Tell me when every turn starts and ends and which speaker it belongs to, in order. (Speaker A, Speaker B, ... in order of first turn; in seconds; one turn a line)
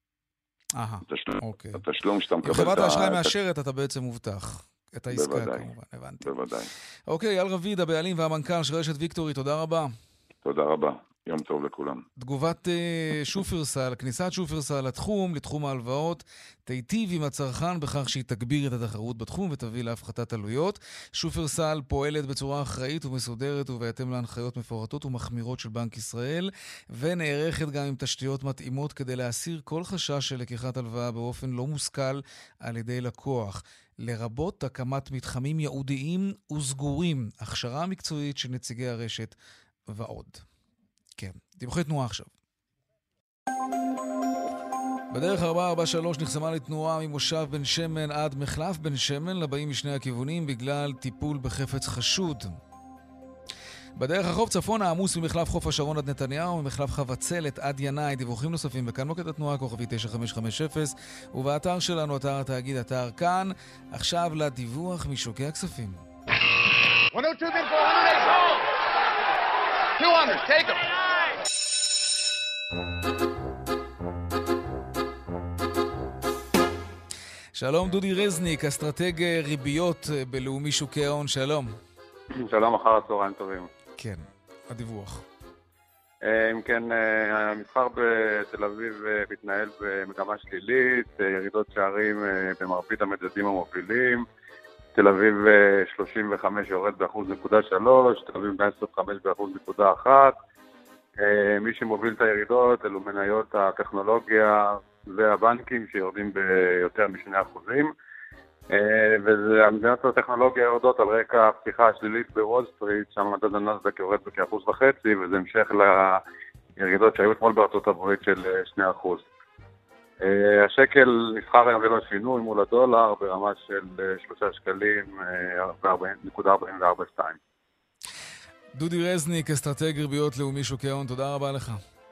Speaker A: 0.8-1.8
Speaker B: 1.1-3.3
Speaker A: 2.4-6.3
Speaker B: 5.1-5.7
Speaker B: 6.2-6.7
Speaker A: 7.1-9.9
Speaker B: 10.4-12.0
Speaker A: 12.2-39.4
Speaker A: 39.9-40.4
Speaker A: 41.2-42.3
Speaker A: 45.1-52.6
Speaker A: 54.0-66.0
Speaker C: 67.1-68.4
Speaker C: 70.0-70.9
Speaker A: 77.5-81.7
Speaker D: 82.4-83.7
Speaker A: 84.0-85.2
Speaker D: 86.2-94.2
Speaker D: 94.9-100.4
Speaker D: 101.2-107.9
Speaker D: 108.7-116.2
Speaker D: 116.8-119.3
Speaker D: 120.2-127.4
Speaker A: 128.7-131.8